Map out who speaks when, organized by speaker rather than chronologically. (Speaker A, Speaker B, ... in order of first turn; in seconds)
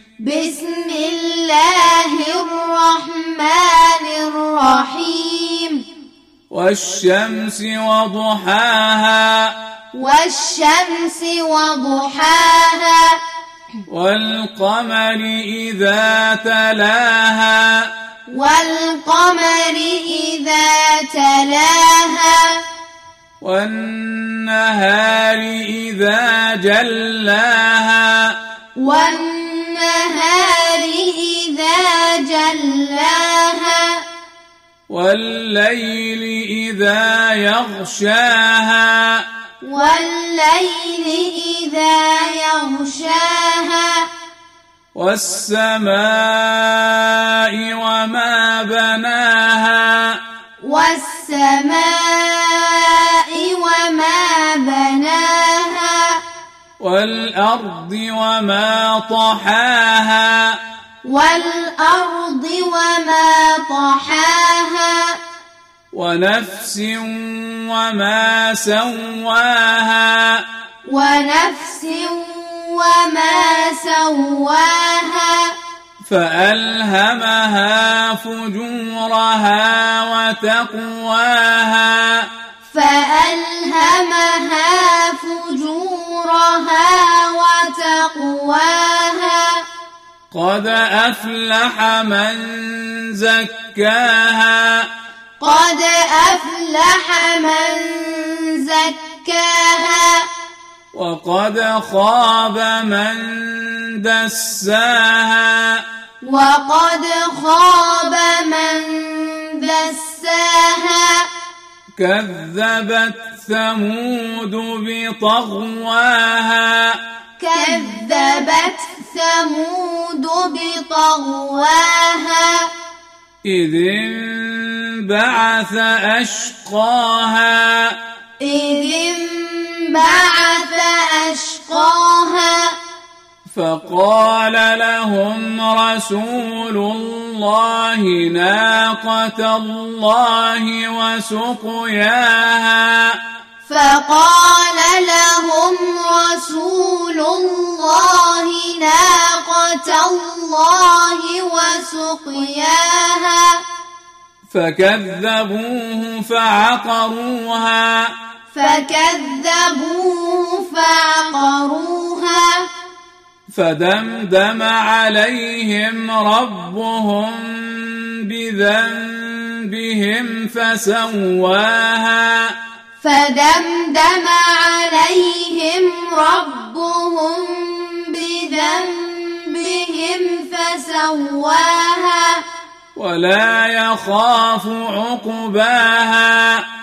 Speaker A: 0.2-5.8, 9.9-13.2, 18.3-22.6, 28.8-34.0, 39.6-44.1, 50.6-56.2, 61.0-65.2, 70.8-75.6, 82.7-89.7, 95.4-100.3, 106.2-111.3, 117.4-122.7, 128.4-132.8, 143.7-153.6, 158.5-162.7, 173.0-182.4
Speaker B: 6.5-9.5, 13.9-17.9, 23.4-28.4, 34.9-39.2, 44.9-50.2, 56.8-60.6, 65.9-70.4, 76.0-82.3, 90.3-94.9, 100.9-105.8, 112.0-117.0, 123.4-128.0, 133.5-143.2, 154.5-158.1, 163.5-172.6, 182.9-186.6